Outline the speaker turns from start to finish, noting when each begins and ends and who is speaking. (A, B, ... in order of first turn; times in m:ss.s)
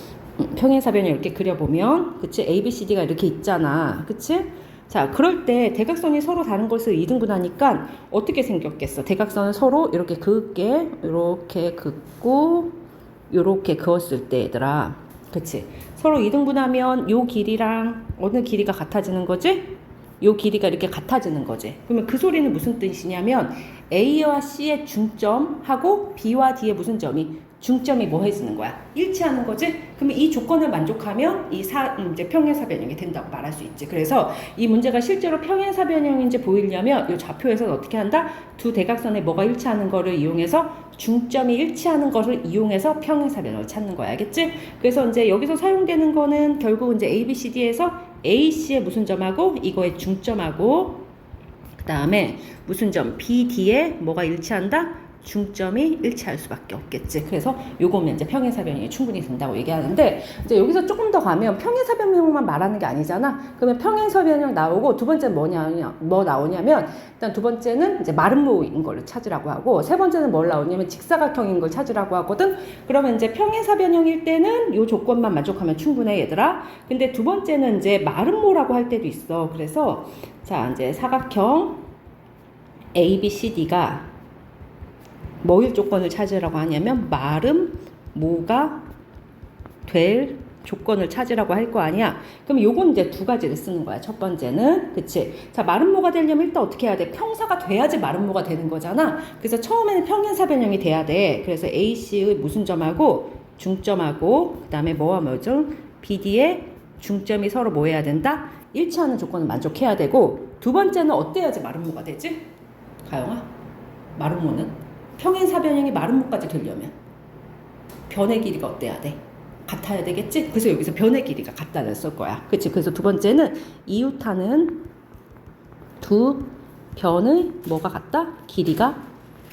0:00.4-0:12.8 A
0:13.3-0:51.1 A
0:51.8-1:21.9 A
1:23.0-1:24.1 A
1:25.4-1:28.9 A
1:29.8-1:52.5 A
1:53.0-1:53.5 A
1:54.2-1:57.0 A
1:58.1-2:04.9 A
2:06.0-2:09.0 A